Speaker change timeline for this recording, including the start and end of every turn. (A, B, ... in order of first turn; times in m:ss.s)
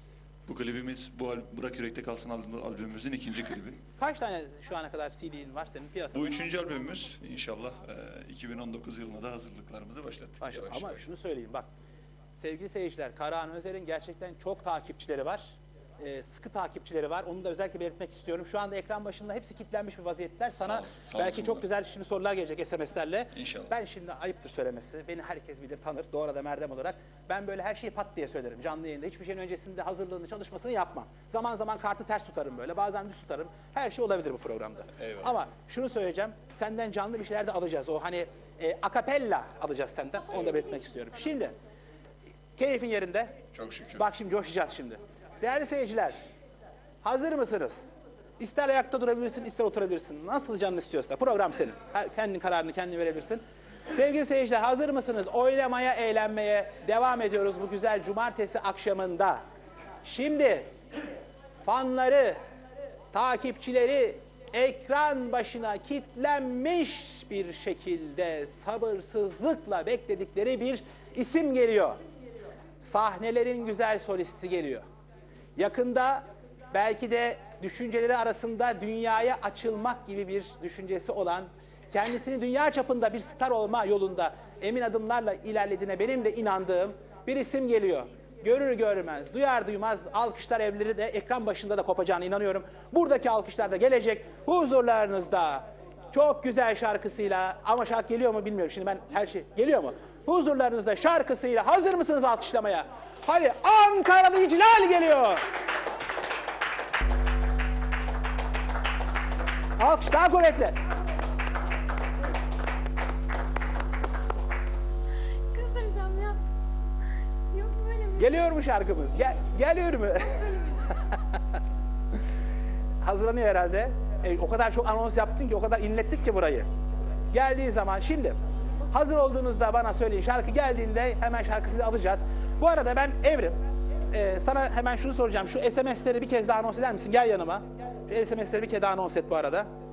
0:00.4-0:03.8 A
0:04.0-0:06.5 B
0:06.1-0:11.0 A
0:10.4-0:11.6 B
0:12.3-0:41.5 B
0:20.6-0:21.6 A
0:23.3-0:23.7 A
0:35.0-0:35.3 A
0:40.5-0:41.1 C
0:42.6-0:43.4 B
0:43.5-0:44.0 A
0:44.0-0:46.2 B
0:47.0-0:59.4 B
1:00.0-1:00.7 B
1:01.6-1:02.4 B
1:03.1-1:12.0 B
1:12.8-1:14.8 B
1:15.6-1:45.4 B
1:49.8-1:50.8 B
1:55.5-1:56.4 C
1:57.5-1:58.4 C
1:58.2-2:01.4 B
2:03.0-2:06.7 B
2:07.3-2:08.3 B
2:08.9-2:13.5 B
2:14.1-2:19.7 B